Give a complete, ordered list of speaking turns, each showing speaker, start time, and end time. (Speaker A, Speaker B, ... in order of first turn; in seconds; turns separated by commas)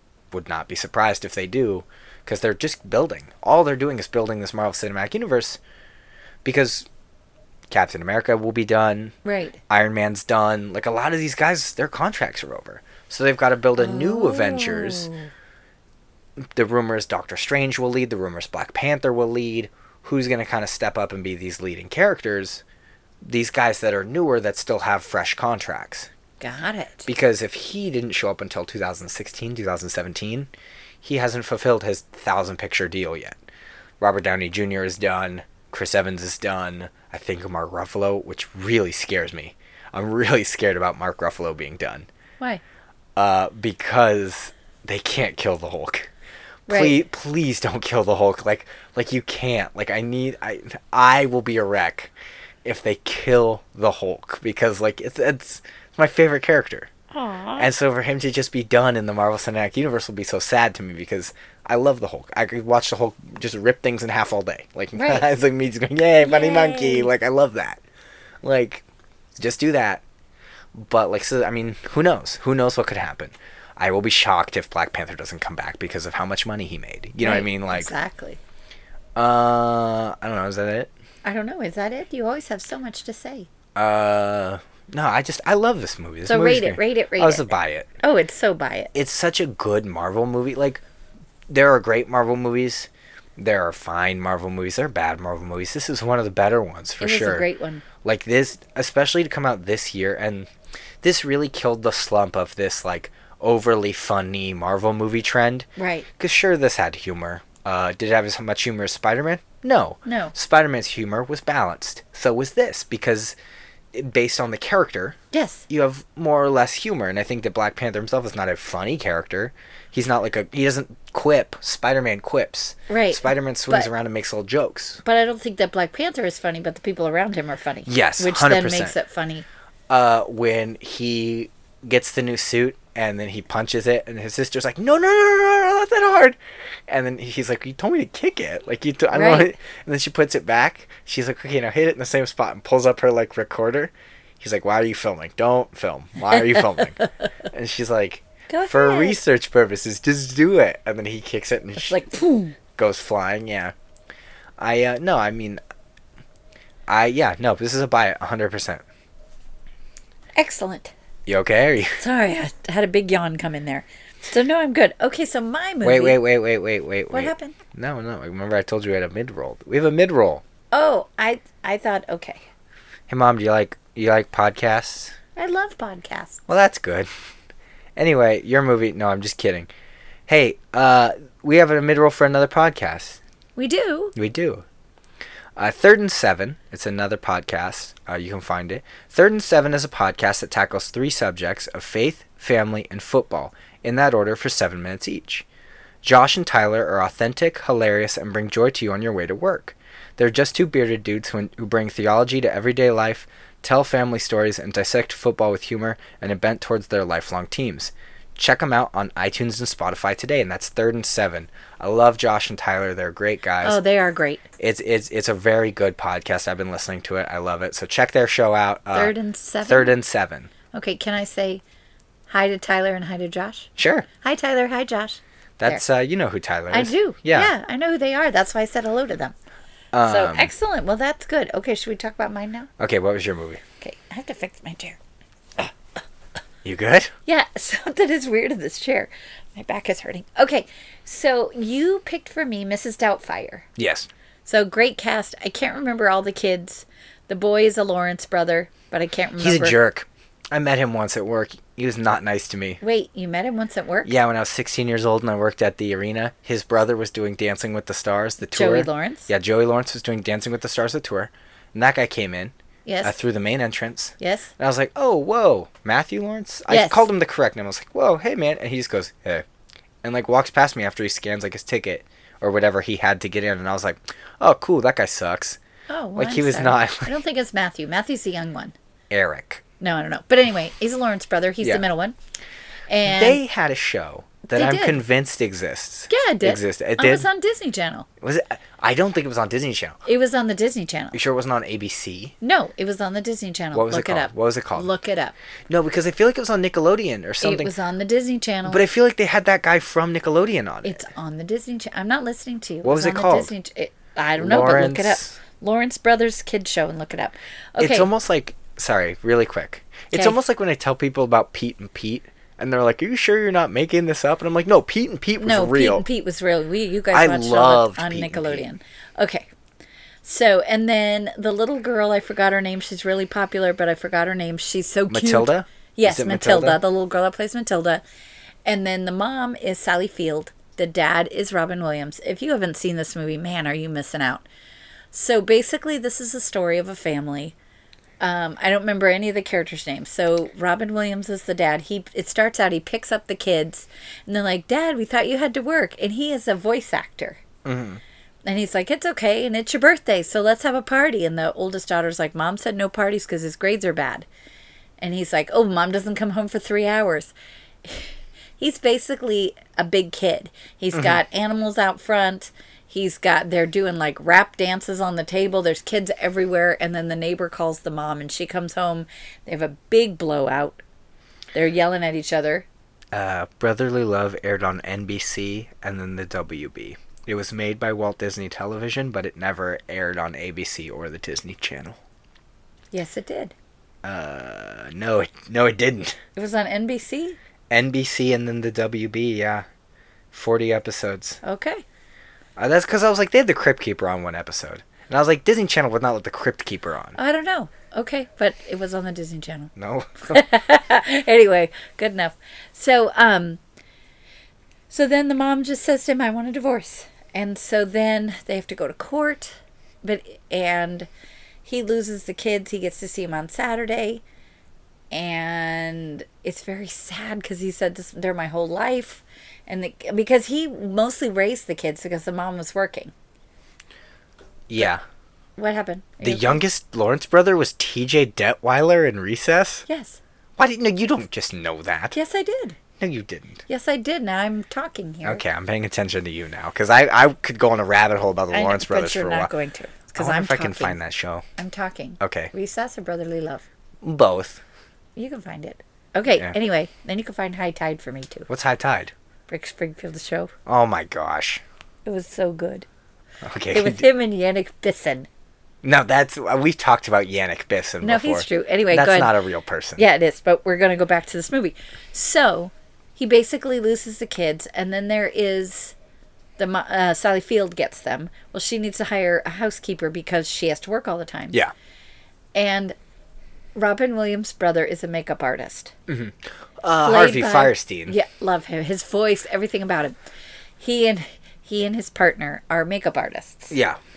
Speaker A: 0.3-5.6, Speaker A: 6.4-6.9, Speaker A: 7.7-9.2, Speaker B: 9.2-9.6, Speaker A: 9.7-15.1, Speaker B: 13.8-15.3, Speaker A: 16.4-22.6, Speaker A: 23.2-26.1, Speaker B: 26.4-27.1, Speaker A: 27.1-30.5, Speaker A: 31.0-33.4, Speaker A: 34.0-42.1, Speaker A: 43.2-46.1, Speaker B: 46.7-47.0, Speaker A: 46.7-52.1, Speaker A: 52.6-56.9, Speaker B: 57.1-57.7, Speaker A: 57.6-67.8, Speaker B: 65.0-65.3, Speaker B: 66.2-67.1, Speaker A: 68.4-68.8, Speaker A: 69.4-70.0, Speaker A: 70.7-77.9, Speaker B: 77.2-78.4, Speaker A: 79.2-80.9, Speaker B: 81.2-83.5, Speaker A: 83.8-87.9, Speaker B: 86.3-88.9, Speaker A: 88.9-90.8, Speaker A: 91.5-97.5, Speaker B: 97.0-97.8, Speaker A: 98.0-100.5, Speaker A: 101.0-105.7, Speaker B: 105.8-106.1, Speaker A: 106.2-113.4, Speaker B: 110.0-110.3, Speaker A: 113.9-115.2, Speaker B: 115.3-115.7, Speaker A: 115.7-125.0, Speaker B: 122.9-123.9, Speaker B: 125.0-129.5, Speaker A: 127.9-128.9, Speaker A: 129.9-152.0, Speaker B: 139.1-139.5, Speaker B: 146.3-147.1, Speaker B: 148.5-149.2, Speaker B: 151.8-152.6, Speaker A: 152.8-153.7, Speaker A: 154.6-155.6, Speaker A: 156.9-158.8, Speaker B: 160.4-160.9, Speaker A: 161.3-162.0, Speaker B: 162.0-166.2, Speaker A: 165.8-170.4, Speaker B: 167.1-167.6, Speaker B: 170.7-172.4, Speaker A: 173.1-175.2, Speaker B: 175.4-176.4, Speaker A: 176.5-177.1, Speaker A: 178.0-179.7, Speaker A: 180.3-183.2, Speaker B: 183.6-184.2, Speaker A: 184.2-184.7, Speaker A: 185.6-195.5, Speaker A: 196.0-213.8, Speaker B: 213.6-214.5, Speaker A: 214.6-220.5, Speaker B: 218.9-219.9, Speaker B: 220.7-221.6, Speaker B: 222.3-223.7, Speaker A: 223.8-224.1, Speaker B: 224.2-225.8, Speaker A: 225.6-227.5, Speaker B: 226.7-229.3, Speaker A: 229.9-230.5, Speaker B: 230.0-232.7, Speaker A: 232.8-233.6, Speaker B: 233.8-235.0, Speaker A: 236.6-237.1, Speaker B: 237.3-243.7, Speaker A: 243.8-244.1, Speaker B: 244.4-249.8, Speaker A: 249.4-252.8, Speaker B: 252.8-254.1, Speaker A: 254.1-269.4, Speaker B: 258.4-259.3, Speaker B: 262.9-263.2, Speaker B: 264.2-264.5, Speaker B: 266.7-267.1, Speaker A: 270.0-275.6, Speaker B: 275.9-278.8, Speaker A: 276.2-277.1, Speaker A: 279.1-279.6, Speaker B: 279.8-282.1, Speaker B: 282.9-283.4, Speaker A: 283.1-287.3, Speaker B: 284.5-285.0, Speaker B: 286.1-288.1, Speaker A: 288.2-290.0, Speaker B: 290.1-291.2, Speaker A: 291.1-292.4, Speaker B: 292.4-295.4, Speaker A: 293.7-294.9, Speaker A: 295.7-297.7, Speaker B: 297.4-298.8, Speaker A: 298.7-301.0, Speaker B: 300.8-308.1, Speaker A: 302.8-303.5, Speaker A: 304.4-305.4, Speaker A: 307.8-316.1, Speaker B: 310.1-310.4, Speaker B: 315.4-319.5, Speaker A: 317.1-318.7, Speaker B: 320.2-328.0, Speaker A: 325.1-326.8, Speaker B: 328.6-334.5, Speaker B: 335.1-337.6, Speaker B: 338.2-347.4, Speaker A: 347.6-348.0, Speaker B: 348.5-354.3, Speaker B: 355.0-357.3, Speaker B: 357.8-370.8, Speaker A: 360.9-361.2, Speaker B: 371.5-372.7, Speaker A: 373.1-382.0, Speaker B: 382.9-383.5, Speaker A: 384.0-386.2, Speaker B: 386.4-387.4, Speaker A: 387.7-389.6, Speaker A: 390.3-391.4, Speaker B: 391.4-391.8, Speaker A: 392.6-397.2, Speaker B: 397.2-399.7, Speaker A: 399.8-400.4, Speaker B: 400.3-403.6, Speaker B: 404.9-411.1, Speaker B: 411.6-414.2, Speaker B: 415.1-423.1, Speaker A: 424.7-425.0, Speaker B: 425.6-426.6, Speaker A: 426.2-429.9, Speaker B: 429.9-430.2, Speaker A: 430.6-432.2, Speaker B: 432.1-432.8, Speaker A: 433.0-433.6, Speaker B: 433.7-435.4, Speaker A: 435.2-439.5, Speaker B: 438.5-441.0, Speaker A: 440.2-441.4, Speaker B: 441.6-443.6, Speaker A: 442.2-442.5, Speaker A: 444.0-444.6, Speaker B: 445.2-448.5, Speaker A: 448.5-449.1, Speaker B: 449.5-450.5, Speaker A: 450.7-451.6, Speaker B: 452.1-452.9, Speaker A: 453.4-454.1, Speaker B: 453.7-455.3, Speaker A: 455.8-460.0, Speaker B: 458.0-459.3, Speaker B: 460.0-465.9, Speaker B: 466.6-471.6, Speaker B: 472.6-472.9, Speaker B: 473.8-475.9, Speaker A: 476.1-478.2, Speaker B: 477.0-480.1, Speaker B: 480.8-483.8, Speaker A: 483.7-484.0